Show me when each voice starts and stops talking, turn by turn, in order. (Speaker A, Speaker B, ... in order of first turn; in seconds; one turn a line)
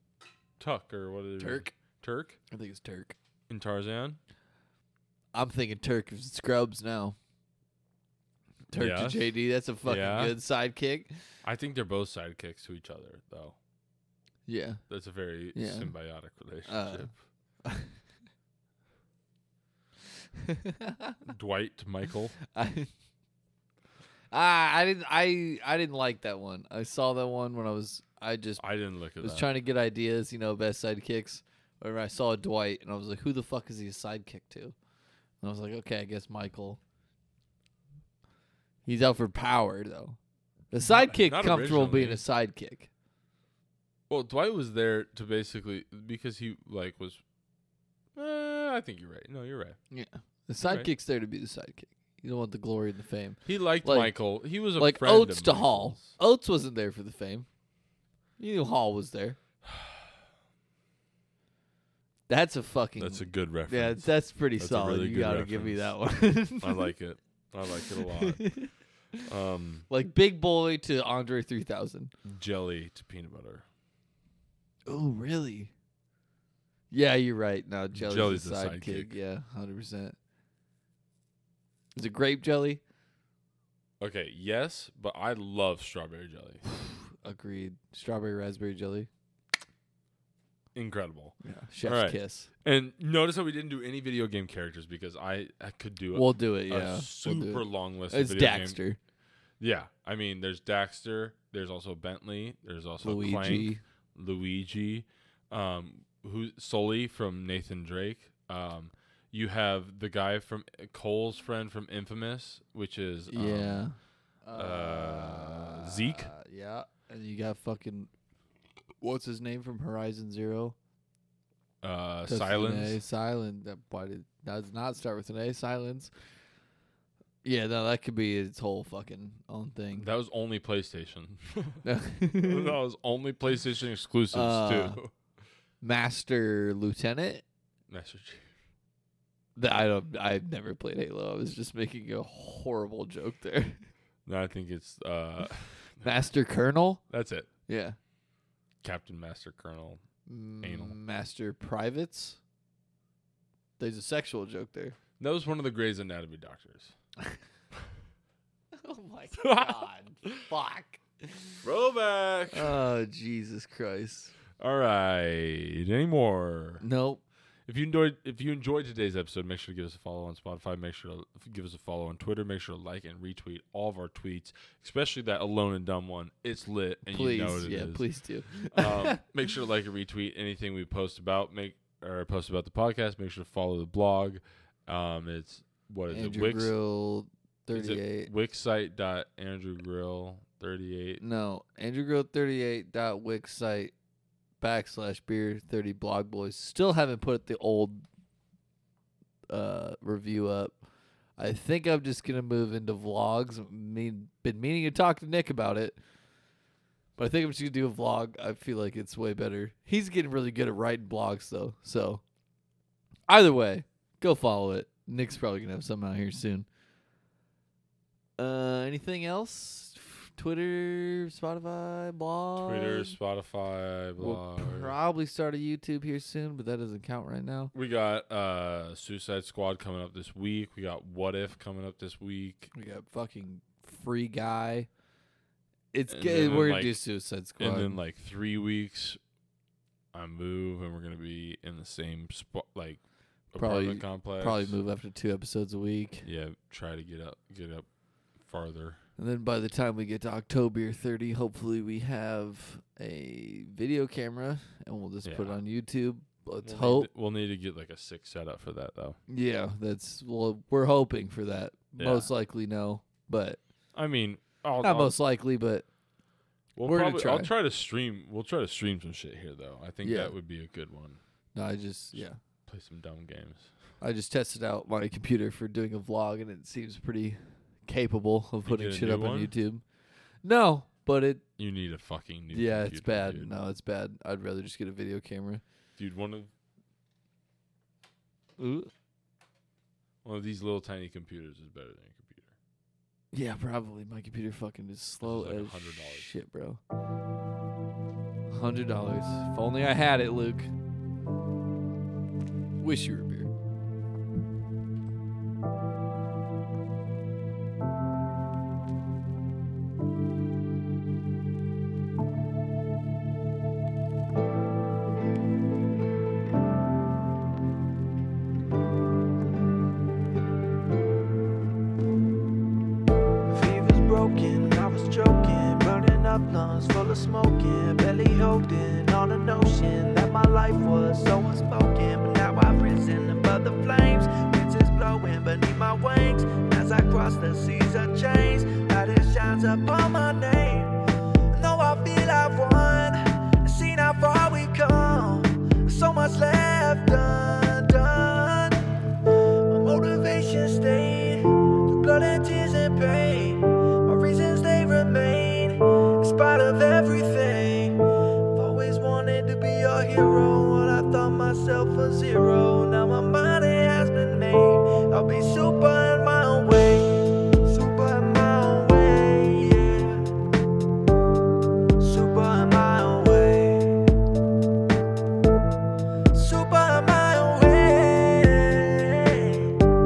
Speaker A: 0.6-2.4
Speaker B: 1.4-1.7
Speaker B: 2.5-3.1
Speaker A: 3.5-4.2
Speaker B: 5.3-7.2
Speaker B: 8.7-11.1
Speaker A: 8.7-9.3
Speaker A: 9.8-10.4
Speaker A: 11.4-13.6
Speaker B: 14.5-14.8
Speaker A: 14.9-17.2
Speaker B: 15.5-15.9
Speaker B: 16.6-17.1
Speaker B: 17.6-17.9
Speaker B: 20.4-21.2
Speaker A: 21.2-22.3
Speaker B: 22.4-22.9
Speaker B: 24.3-28.6
Speaker A: 28.6-29.5
Speaker B: 29.2-34.7
Speaker B: 35.4-36.8
Speaker B: 38.9-40.2
Speaker B: 40.7-42.9
Speaker A: 40.8-42.2
Speaker A: 44.1-47.2
Speaker A: 48.1-49.8
Speaker B: 49.9-54.2
Speaker A: 53.5-56.1
Speaker B: 54.8-57.5
Speaker B: 58.4-59.4
Speaker A: 59.7-60.0
Speaker B: 62.3-66.9
Speaker A: 63.0-66.0
Speaker A: 66.6-68.4
Speaker B: 67.9-69.2
Speaker A: 69.2-69.9
Speaker B: 69.9-72.1
Speaker A: 72.2-73.7
Speaker B: 74.9-75.7
Speaker B: 76.9-80.2
Speaker A: 77.9-79.2
Speaker B: 81.9-82.8
Speaker A: 84.0-86.6
Speaker B: 86.8-89.1
Speaker A: 90.7-98.8
Speaker B: 91.4-92.5
Speaker B: 96.1-99.0
Speaker A: 99.6-113.8
Speaker B: 103.0-103.8
Speaker B: 113.3-118.1
Speaker A: 114.5-116.3
Speaker B: 119.0-120.8
Speaker A: 121.8-123.0
Speaker B: 122.2-126.1
Speaker B: 127.4-130.1
Speaker A: 130.0-135.1
Speaker B: 131.8-132.8
Speaker B: 134.3-135.0
Speaker B: 135.8-137.4
Speaker A: 137.9-138.5
Speaker B: 139.6-143.8
Speaker A: 144.2-146.3
Speaker B: 146.0-147.0
Speaker A: 147.1-147.5
Speaker B: 147.7-148.0
Speaker A: 148.8-150.0
Speaker B: 150.3-152.4
Speaker A: 150.6-151.0
Speaker B: 153.8-154.9
Speaker A: 155.2-156.9
Speaker B: 158.8-161.6
Speaker A: 159.4-160.3
Speaker A: 161.6-162.8
Speaker B: 162.5-164.3
Speaker A: 164.6-166.8
Speaker B: 166.8-167.2
Speaker A: 167.7-178.0
Speaker B: 177.1-179.2
Speaker A: 178.7-186.7
Speaker B: 186.1-188.3
Speaker A: 187.7-191.2
Speaker B: 191.2-193.9
Speaker B: 194.6-198.0
Speaker B: 199.5-200.8
Speaker B: 201.4-206.0
Speaker B: 207.2-212.2
Speaker B: 213.3-216.7
Speaker B: 218.4-223.2
Speaker A: 222.6-224.9
Speaker B: 224.2-227.7
Speaker A: 227.7-232.7
Speaker B: 232.7-234.9
Speaker B: 235.9-238.0
Speaker A: 236.1-237.0
Speaker A: 237.6-239.2
Speaker A: 240.1-243.0
Speaker A: 243.5-244.8
Speaker B: 243.6-246.3
Speaker A: 246.2-247.8
Speaker A: 248.4-249.0
Speaker B: 249.2-257.1
Speaker A: 255.2-255.6
Speaker A: 256.6-259.2
Speaker B: 259.3-263.6
Speaker A: 262.0-262.3
Speaker A: 263.9-265.2
Speaker B: 264.8-265.9
Speaker A: 266.8-271.2
Speaker B: 266.8-267.5
Speaker B: 270.0-270.3
Speaker B: 271.5-272.4
Speaker A: 272.1-273.7
Speaker B: 274.0-279.8
Speaker A: 278.6-279.5
Speaker B: 280.4-281.4
Speaker A: 281.6-283.5
Speaker B: 282.5-285.6
Speaker A: 286.0-286.5
Speaker B: 288.6-288.9
Speaker A: 290.2-292.5
Speaker B: 293.3-296.8
Speaker A: 295.2-296.3
Speaker B: 298.5-300.7
Speaker B: 302.8-303.5
Speaker C: 323.5-340.9
Speaker C: 341.5-370.3
Speaker C: 372.0-374.1
Speaker C: 376.3-379.8